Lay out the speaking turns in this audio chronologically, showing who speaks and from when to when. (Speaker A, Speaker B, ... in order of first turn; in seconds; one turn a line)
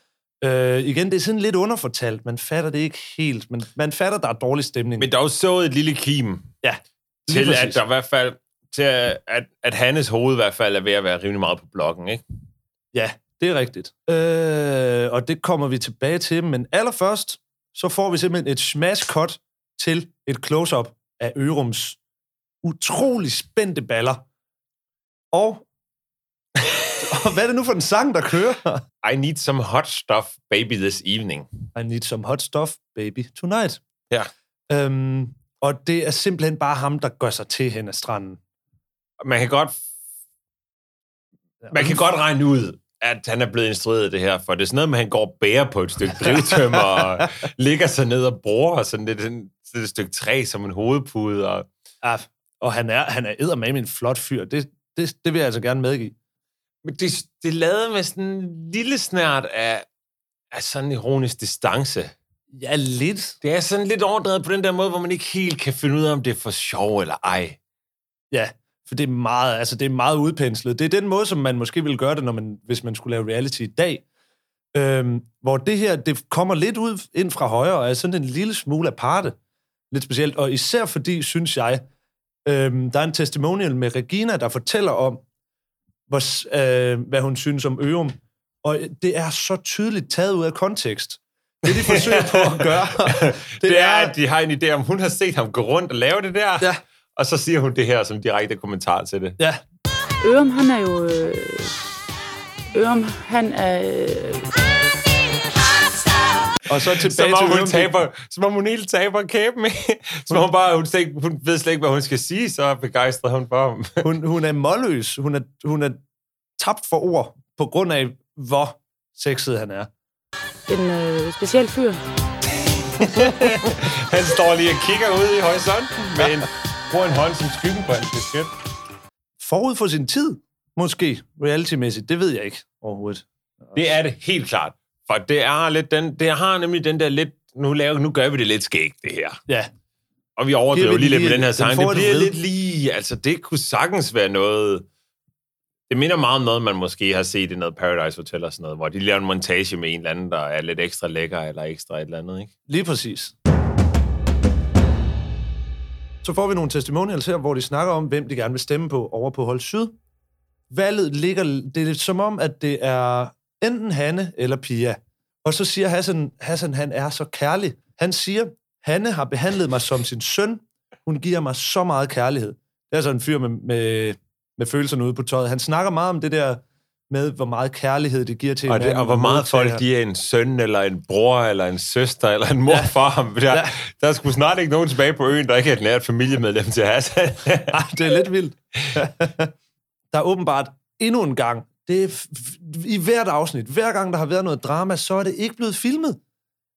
Speaker A: 0.4-5.1
Speaker B: 5.0-6.5
Speaker A: 6.6-7.8
Speaker B: 7.3-12.2
Speaker A: 12.9-22.0
Speaker A: 22.6-24.2
Speaker A: 25.3-25.6
Speaker A: 27.0-28.8
Speaker B: 29.0-31.5
Speaker A: 31.7-33.8
Speaker A: 34.7-38.4
Speaker B: 39.2-39.8
Speaker A: 41.6-42.0
Speaker B: 41.7-51.7
Speaker A: 46.1-47.2
Speaker A: 52.0-56.1
Speaker B: 56.8-59.9
Speaker B: 60.5-62.1
Speaker A: 62.5-63.4
Speaker B: 63.4-67.6
Speaker A: 68.3-74.0
Speaker A: 74.7-79.3
Speaker A: 79.9-81.8
Speaker A: 82.4-85.2
Speaker A: 86.1-94.1
Speaker B: 91.7-99.4
Speaker A: 99.4-99.6
Speaker C: 100.2-101.8
Speaker C: 102.7-104.5
Speaker A: 106.7-107.9
Speaker B: 107.0-114.0
Speaker A: 114.0-116.0
Speaker A: 116.6-119.9
Speaker C: 120.7-122.0
Speaker B: 123.0-128.5
Speaker A: 129.4-133.8
Speaker B: 133.7-139.4
Speaker B: 140.4-144.8
Speaker A: 140.7-142.3
Speaker B: 145.9-152.5
Speaker A: 152.7-153.3
Speaker A: 156.2-159.9
Speaker A: 160.7-179.8
Speaker B: 178.7-187.8
Speaker A: 183.5-183.8
Speaker A: 187.7-189.5
Speaker A: 190.1-196.2